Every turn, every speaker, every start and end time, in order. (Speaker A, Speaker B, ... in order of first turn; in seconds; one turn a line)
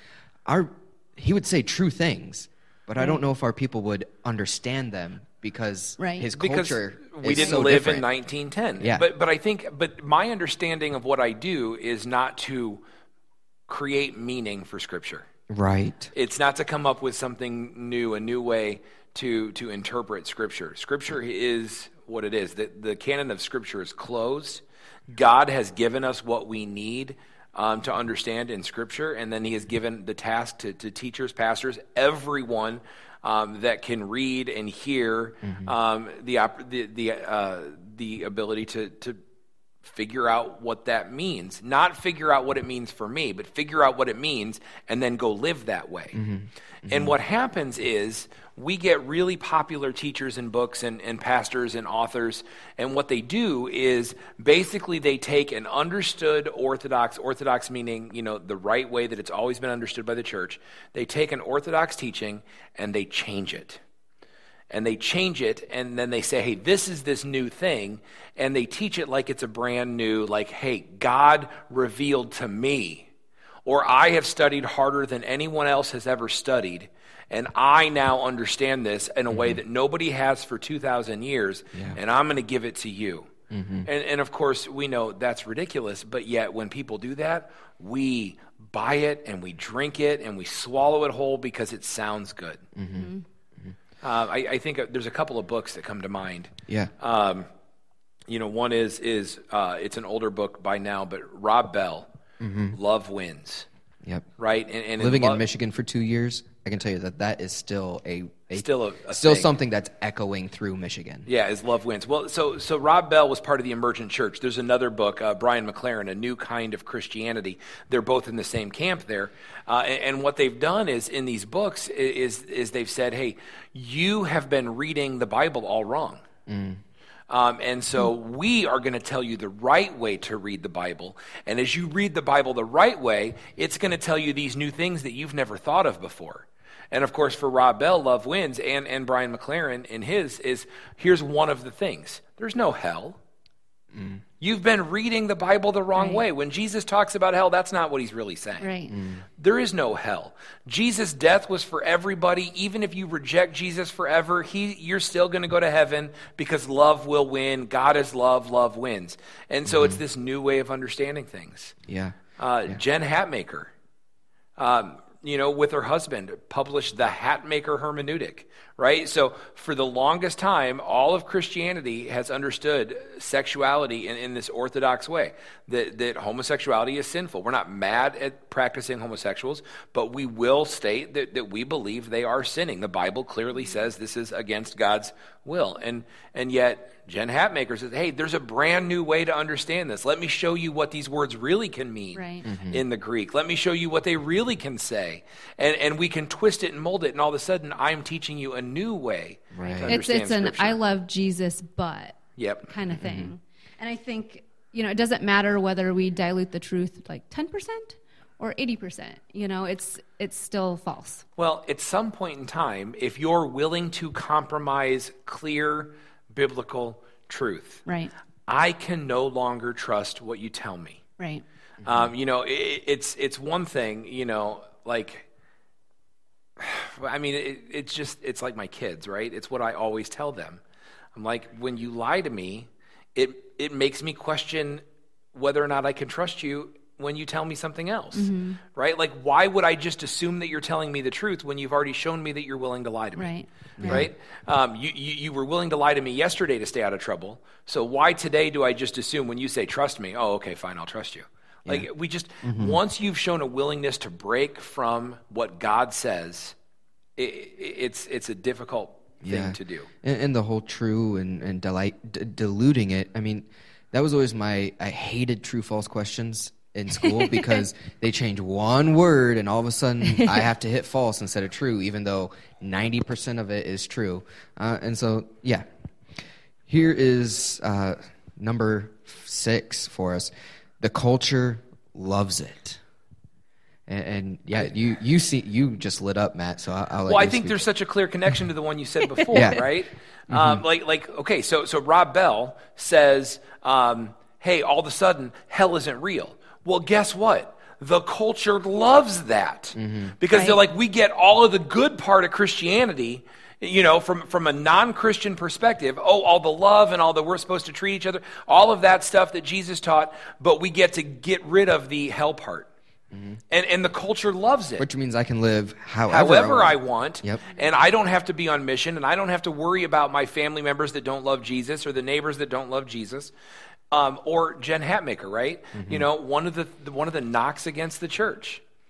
Speaker A: 0.5-8.1
Speaker B: 6.0-6.3
Speaker C: 6.3-12.8
Speaker B: 7.4-7.6
Speaker A: 8.8-9.1
Speaker C: 13.7-15.2
Speaker A: 15.5-16.1
Speaker C: 16.1-39.2
Speaker A: 35.4-35.8
Speaker C: 39.8-46.2
Speaker A: 46.1-47.1
Speaker C: 46.9-63.8
Speaker C: 64.7-73.1
Speaker C: 73.6-83.3
Speaker A: 79.3-79.6
Speaker A: 81.7-82.0
Speaker A: 83.5-83.9
Speaker C: 83.8-92.6
Speaker A: 92.8-93.1
Speaker B: 92.9-93.2
Speaker C: 94.0-97.5
Speaker C: 98.3-102.1
Speaker A: 102.4-102.8
Speaker C: 102.7-103.7
Speaker C: 104.4-105.4
Speaker A: 105.0-111.3
Speaker C: 108.5-109.5
Speaker C: 111.3-126.2
Speaker A: 126.5-126.8
Speaker C: 127.3-143.2
Speaker A: 143.9-144.2
Speaker C: 144.4-148.7
Speaker B: 145.9-146.2
Speaker B: 148.6-148.9
Speaker A: 148.9-149.2
Speaker C: 149.4-161.7
Speaker A: 159.7-160.0
Speaker A: 161.9-162.8
Speaker C: 162.4-163.7
Speaker C: 164.6-200.8
Speaker B: 192.1-192.5
Speaker A: 192.4-192.8
Speaker A: 199.5-200.0
Speaker B: 199.9-211.2
Speaker C: 202.4-202.7
Speaker A: 202.9-203.3
Speaker C: 211.4-217.8
Speaker B: 217.8-218.1
Speaker C: 218.5-221.0
Speaker B: 221.2-221.4
Speaker A: 221.8-222.1
Speaker C: 221.8-225.3
Speaker C: 226.6-230.6
Speaker C: 231.1-243.3
Speaker B: 238.1-238.6
Speaker B: 243.2-244.0
Speaker A: 243.8-244.1
Speaker C: 243.8-256.6
Speaker A: 252.4-252.8
Speaker C: 257.2-259.9
Speaker A: 259.2-275.6
Speaker B: 267.0-267.6
Speaker B: 270.1-270.4
Speaker A: 276.7-282.8
Speaker A: 283.9-287.6
Speaker C: 287.1-312.7
Speaker B: 289.3-289.6
Speaker A: 289.3-289.6
Speaker A: 290.3-290.6
Speaker A: 299.8-300.1
Speaker B: 300.3-300.6
Speaker A: 313.1-313.4
Speaker C: 313.5-314.9
Speaker A: 314.8-317.4
Speaker C: 316.1-323.3
Speaker C: 323.9-328.6
Speaker A: 325.7-326.1